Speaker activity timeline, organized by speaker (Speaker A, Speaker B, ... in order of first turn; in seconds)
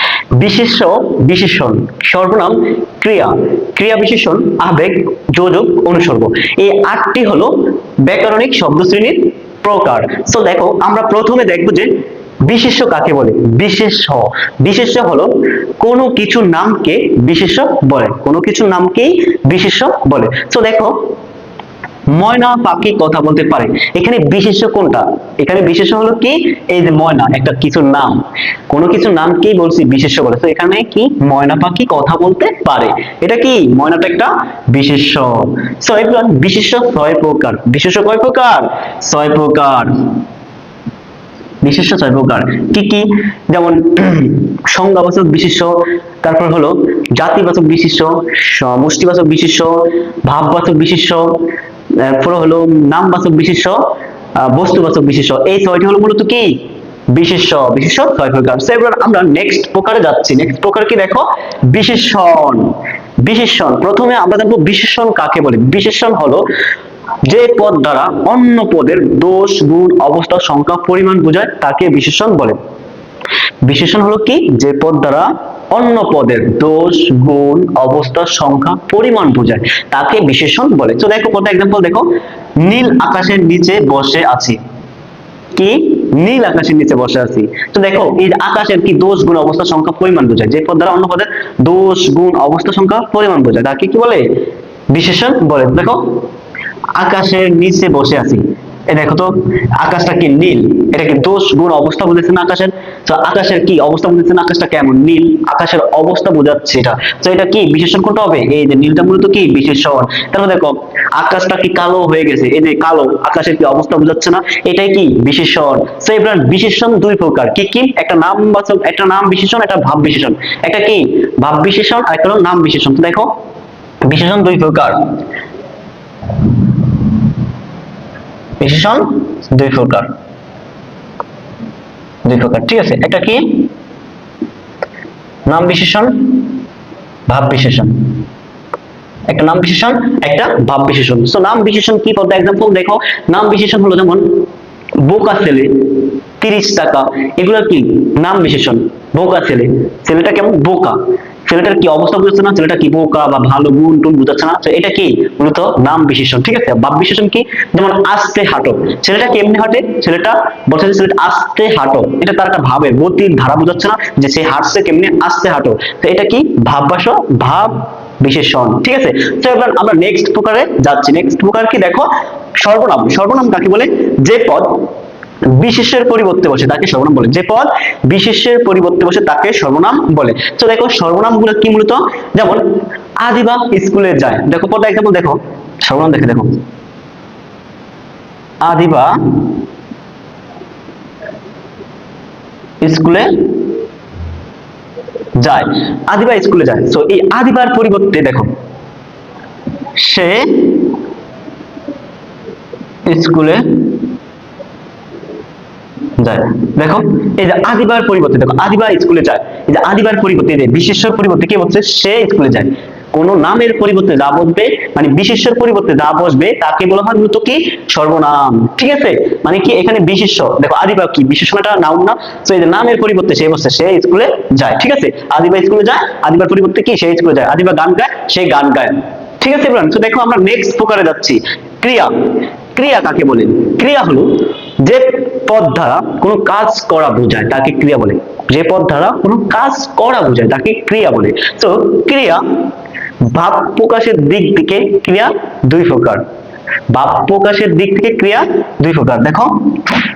Speaker A: 0.3-21.1, 22.1-40.2, 41.6-56.6, 57.1-66.4, 67.2-72.6, 73.6-84.6, 85.5-96.2, 96.9-123.3, 124.0-125.1, 128.6-130.1, 132.2-133.7, 135.5-136.5, 137.3-138.2, 139.3-144.4, 145.0-174.9, 175.4-186.6, 188.6-189.5, 192.8-193.5, 195.4-198.5, 199.9-200.9, 203.1-204.0, 206.2-242.5, 243.2-246.2, 246.9-250.0